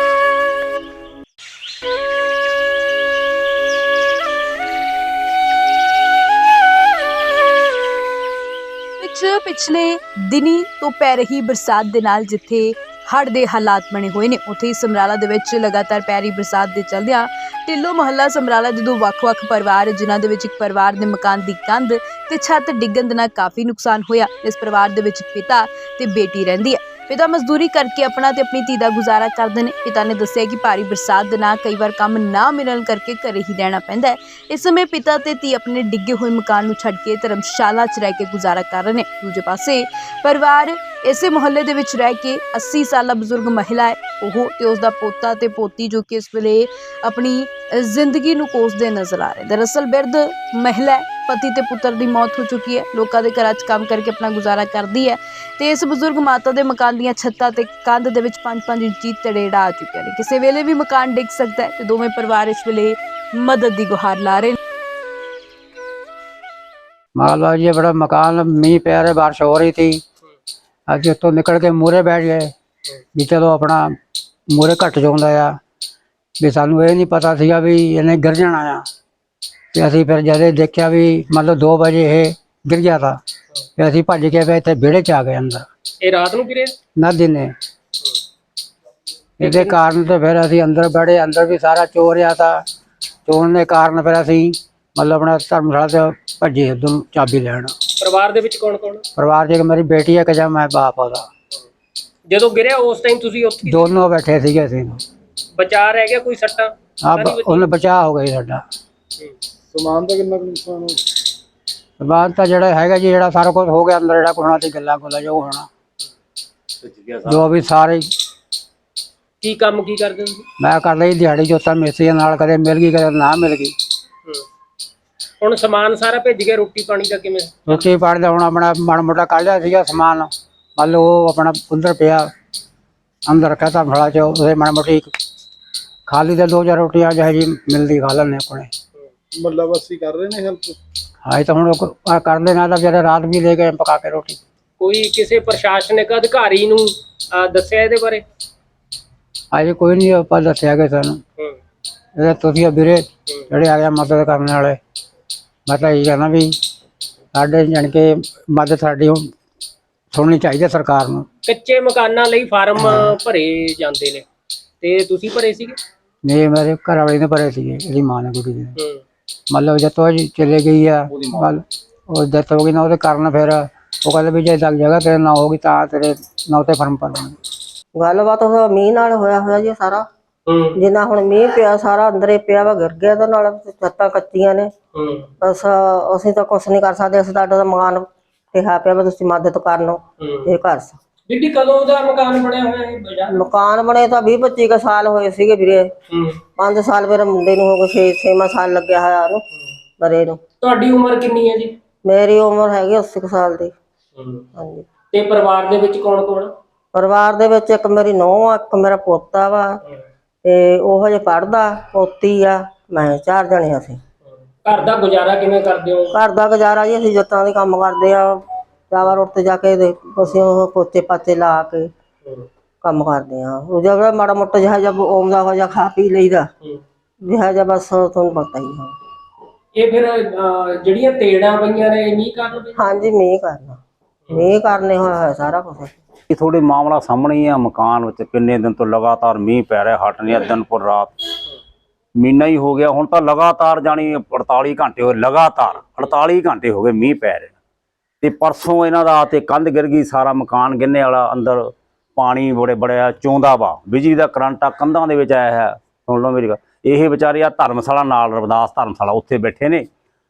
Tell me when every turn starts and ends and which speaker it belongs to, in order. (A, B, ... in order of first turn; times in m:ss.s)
0:09.0-1:04.6 A
1:07.2-1:10.0 B
1:10.9-1:12.5 B
1:13.2-1:14.0 B
1:14.5-1:15.6 B
1:16.4-1:18.8 B
1:19.7-1:23.2 B
1:23.8-1:25.7 B
1:26.0-1:26.7 C
1:27.0-1:27.5 B
1:29.4-1:32.6 B
1:29.4-1:29.8 C
1:33.2-1:37.8 B
1:38.0-1:39.0 C
1:39.2-1:41.3 B
1:42.3-1:43.9 C
1:43.7-1:45.0 B
1:45.6-1:47.7 C
1:47.0-1:48.6 B
1:49.7-1:51.0 D
1:52.0-1:55.7 B
1:56.8-1:57.4 E
1:57.3-1:58.1 B
1:59.4-2:00.4 C
2:00.6-2:03.8 B
2:05.4-2:07.5 C
2:07.7-2:12.3 B
2:13.2-2:15.1 B
2:16.1-2:18.7 B
2:19.3-2:20.8 D
2:21.2-2:24.4 B
2:24.8-2:28.2 C
2:29.5-2:31.2 B
2:32.2-2:34.8 B
2:35.7-2:36.5 B
2:37.3-2:39.3 B
2:40.1-2:41.3 B
2:41.4-2:44.2 C
2:42.8-2:43.1 B
2:44.8-2:45.8 C
2:46.2-2:48.8 B
2:49.5-2:57.4 B
2:51.1-2:51.5 E
2:57.9-3:00.0 F
3:00.5-3:00.8 C
3:00.8-3:04.7 F
3:04.9-3:05.3 C
3:05.4-3:11.0 F
3:10.2-3:10.5 C
3:11.3-3:13.4 C
3:13.3-3:15.9 F
3:16.1-3:16.4 C
3:16.6-3:19.4 F
3:20.0-3:20.4 F
3:20.6-3:21.7 C
3:22.0-3:23.7 F
3:24.2-3:24.4 C
3:24.6-3:24.8 F
3:25.1-3:26.5 C
3:26.9-3:29.8 F
3:30.4-3:34.0 F
3:34.2-3:36.2 C
3:36.1-3:41.9 F
3:42.8-3:46.5 F
3:47.2-3:48.9 F
3:49.8-3:52.8 C
3:52.8-3:53.8 F
3:54.3-3:56.0 F
3:56.3-4:01.1 E
4:02.2-4:07.6 E
4:08.2-4:19.9 E